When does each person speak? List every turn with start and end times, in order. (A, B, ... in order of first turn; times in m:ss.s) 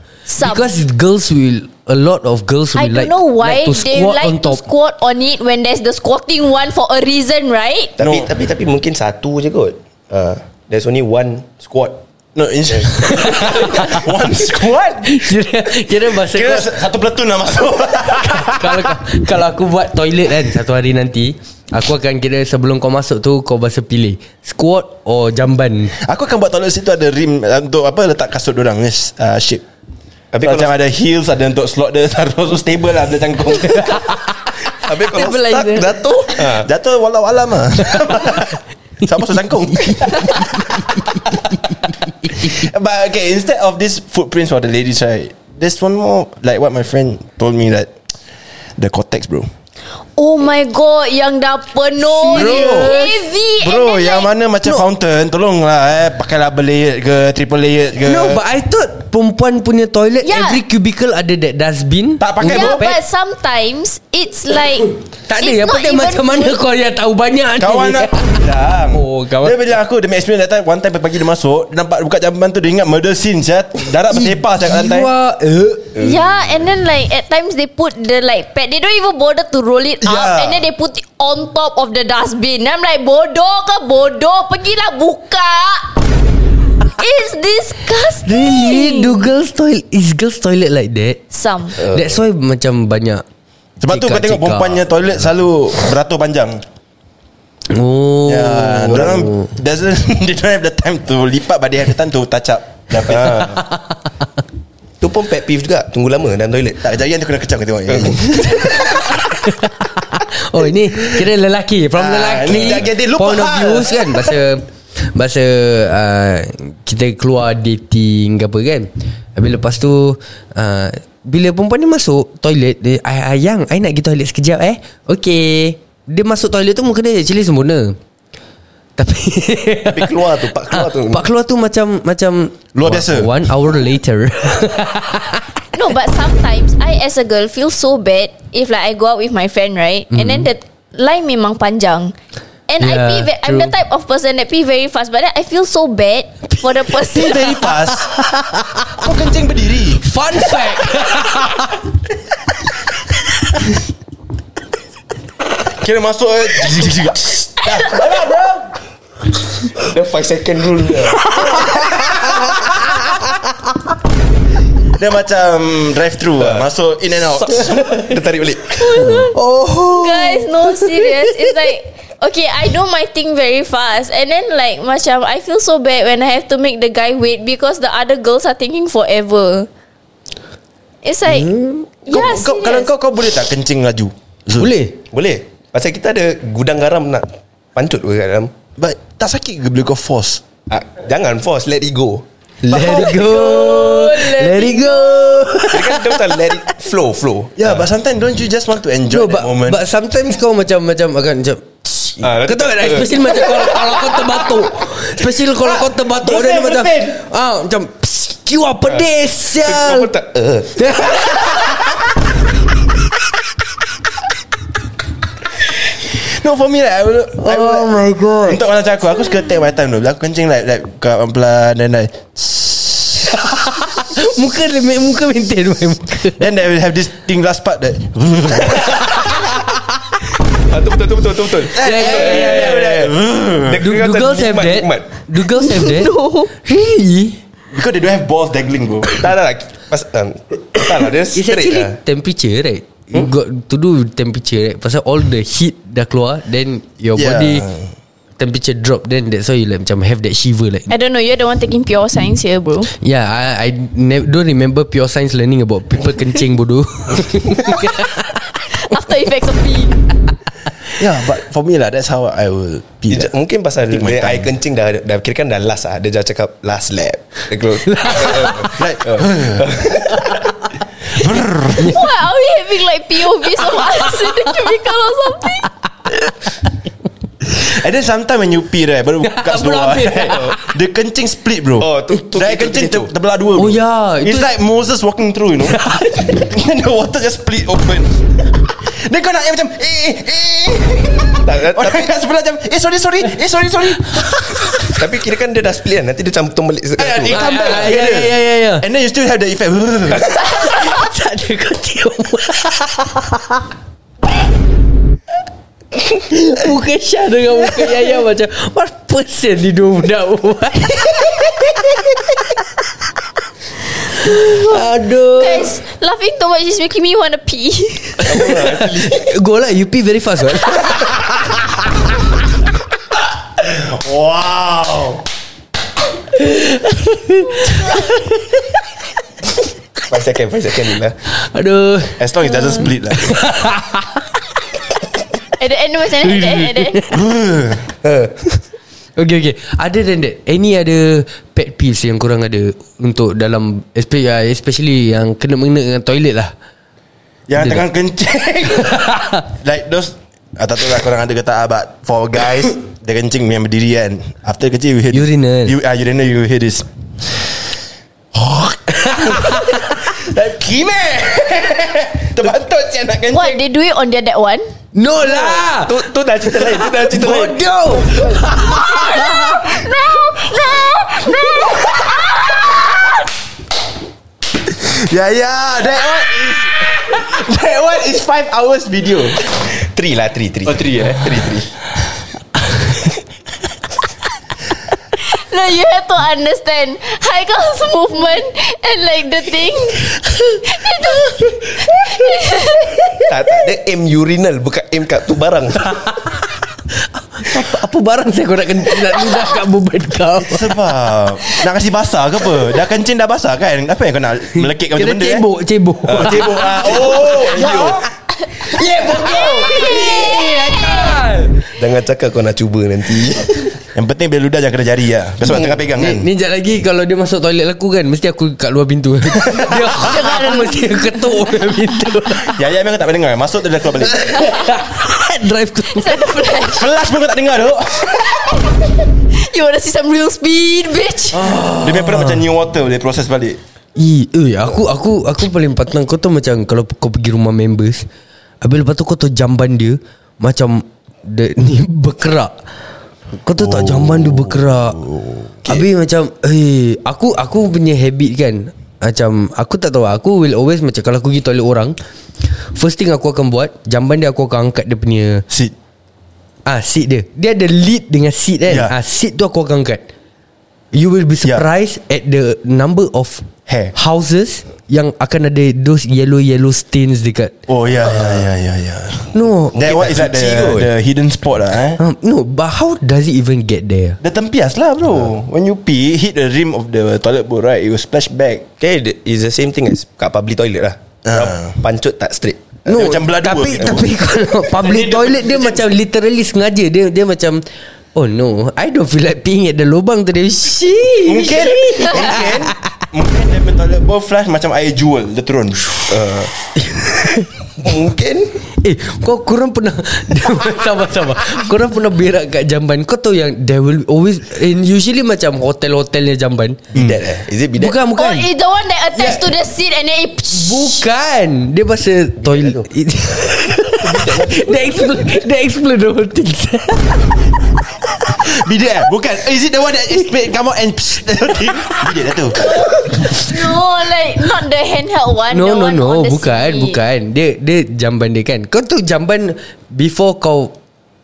0:00.3-0:00.7 A
0:00.4-0:04.6 B
0:02.8-0:07.9 A
0:08.0-0:11.7 C
0:08.0-0:08.3 D
0:11.7-0:15.4 D
0:13.1-0:14.0 B
0:15.1-0:16.7 B
0:16.3-0:19.1 D
0:18.1-0:25.9 B
0:26.0-0:29.6 D
0:30.3-0:30.7 C
0:30.4-0:34.0 D
0:33.7-0:34.2 B
0:34.8-0:36.7 C
0:35.1-0:36.3 A
0:36.4-0:41.6 D
0:39.8-0:41.3 B
0:42.2-0:47.9 D
0:48.8-0:49.5 D
0:50.2-0:54.3 A
0:52.2-0:53.1 B
0:52.3-0:53.0 D
0:53.6-0:58.4 D
0:58.0-1:03.0 B
1:00.2-1:00.6 A
1:02.2-1:02.9 D
1:02.4-1:06.6 A
1:05.3-1:09.6 B
1:07.6-1:15.1 D
1:14.1-1:16.0 B
1:16.0-1:26.0 A
1:20.0-1:20.6 D
1:27.0-1:29.3 A
1:28.2-1:31.2 B
1:31.3-1:31.8 A
1:31.8-1:33.2 B
1:31.8-1:32.2 C
1:33.8-1:36.6 D
1:33.9-1:34.9 B
1:37.7-1:39.5 B
1:38.2-1:43.6 D
1:43.0-1:43.6 C
1:45.0-1:46.8 C
1:46.8-1:49.1 D
1:47.9-1:48.8 C
1:49.3-2:08.0 B
1:51.9-1:54.3 D
2:09.0-2:15.6 B
2:09.8-2:11.2 C
2:12.7-2:13.4 D
2:15.7-2:22.1 A
2:20.1-2:20.5 B
2:22.7-2:27.6 A
2:22.8-2:23.7 B
2:26.9-2:28.2 D
2:28.1-2:28.9 B
2:29.0-2:30.0 D
2:30.0-2:31.8 B
2:35.7-2:38.7 D
2:39.8-2:41.3 C
2:41.3-2:42.6 D
2:41.4-2:41.8 B
2:45.0-2:47.8 D
2:47.2-2:49.2 C
2:48.7-2:49.4 A
2:49.0-2:51.5 B
2:50.0-2:59.7 A
3:01.0-3:02.9 A
3:01.2-3:01.8 B
3:02.1-3:04.7 D
3:04.5-3:05.0 B
3:05.1-3:08.5 C
3:08.8-3:10.4 D
3:10.7-3:13.5 C
3:12.6-3:16.5 B
3:12.8-3:15.4 A
3:15.7-3:17.8 C
3:17.6-3:19.8 D
3:19.1-3:30.1 B
3:22.2-3:23.8 C
3:25.6-3:27.2 D
3:29.6-3:30.8 C
3:30.8-3:31.7 B
3:36.0-3:43.0 D
3:37.4-3:38.6 B
3:43.3-3:46.5 B
3:46.4-3:49.6 D
3:50.7-3:55.1 C
3:51.7-3:53.8 D
3:51.8-3:52.9 B
3:53.8-3:57.4 B
3:55.7-3:56.5 A
3:57.7-3:59.3 D
3:59.1-4:01.9 C
4:01.3-4:07.7 B
4:07.1-4:07.8 D
4:08.4-4:10.9 B
4:10.9-4:12.9 A
4:13.0-4:18.4 B
4:18.7-4:20.1 A
4:21.0-4:23.3 D
4:23.1-4:30.4 C
4:23.8-4:24.5 D
4:27.8-4:28.8 B
4:28.7-4:29.8 D
4:31.1-4:32.0 D
4:31.8-4:35.7 A
4:33.7-4:34.5 B
4:36.2-4:36.5 B
4:37.6-4:54.9 D
4:39.2-4:40.7 B
4:40.2-4:40.6 C
4:41.8-4:43.1 C
4:43.6-4:44.5 B
4:45.7-4:46.4 B
4:51.4-4:52.1 C
4:54.9-4:57.8 C
4:57.0-5:00.3 D
4:57.3-4:58.8 B
5:00.4-5:03.6 B
5:06.1-5:12.6 B
5:14.2-5:15.7 B
5:14.2-5:14.8 A
5:15.3-5:18.4 A
5:18.2-5:19.3 C
5:18.6-5:21.2 B
5:23.6-5:25.2 D
5:26.3-5:28.8 B
5:30.1-5:31.2 C
5:31.3-5:32.2 B
5:32.2-5:33.4 D
5:33.2-5:34.3 B
5:35.6-5:37.0 A
5:36.2-5:37.2 B
5:37.1-5:37.8 D
5:38.0-5:38.4 C
5:39.2-5:46.5 B
5:47.5-5:56.9 D
5:47.6-5:47.8 B
5:48.9-5:49.4 B
5:55.1-5:55.8 B
5:58.3-6:03.6 D
5:59.3-5:59.9 B
6:03.3-6:04.7 A
6:04.9-6:09.6 B
6:05.2-6:08.5 C
6:08.7-6:12.7 A
6:14.7-6:19.4 D
6:19.7-6:21.7 C
6:20.7-6:21.4 D
6:25.3-6:33.0 A
6:33.3-6:35.9 C
6:35.8-6:36.4 B
6:37.0-6:40.8 B
6:40.4-6:45.4 D
6:44.5-6:46.8 B
6:46.0-6:48.0 C
6:46.1-6:48.0 D
6:48.5-6:51.6 B
6:49.2-6:51.2 A
6:49.4-6:49.8 C
6:51.8-6:53.7 C
6:53.9-6:56.3 D
6:55.4-6:55.8 C
6:56.0-7:02.5 B
6:59.9-7:01.1 A
7:02.5-7:04.4 D
7:04.1-7:06.5 B
7:05.9-7:06.9 A
7:06.7-7:08.5 D
7:08.3-7:08.8 A
7:09.3-7:11.5 A
7:11.3-7:12.4 B
7:11.5-7:13.6 D
7:14.0-7:18.0 B
7:18.6-7:22.5 B
7:23.4-7:25.0 B
7:23.6-7:25.8 D
7:25.6-7:32.0 B
7:32.7-7:35.4 B
7:35.5-7:35.7 D
7:36.6-7:40.0 B
7:38.7-7:38.9 D
7:40.9-7:47.5 B
7:43.7-7:43.9 D
7:47.7-7:52.0 D
7:49.3-7:49.7 B
7:49.7-7:50.9 C
7:52.0-7:54.2 B
7:54.2-7:58.6 D
7:58.8-8:02.8 C
8:01.2-8:01.7 D
8:02.8-8:04.1 D
8:02.9-8:07.6 B
8:04.7-8:05.8 D
8:08.1-8:12.7 B
8:11.2-8:15.8 D
8:16.1-8:16.5 C
8:16.8-8:17.4 B
8:17.8-8:18.5 C
8:18.8-8:26.8 B
8:26.9-8:28.0 C
8:26.9-8:27.2 D
8:27.8-8:28.5 B
8:28.2-8:31.0 A
8:29.2-8:29.5 B
8:30.5-8:37.4 B
8:32.4-8:32.9 C
8:34.0-8:35.4 C
8:38.4-8:42.6 D
8:42.6-8:47.0 A
8:45.5-8:50.8 B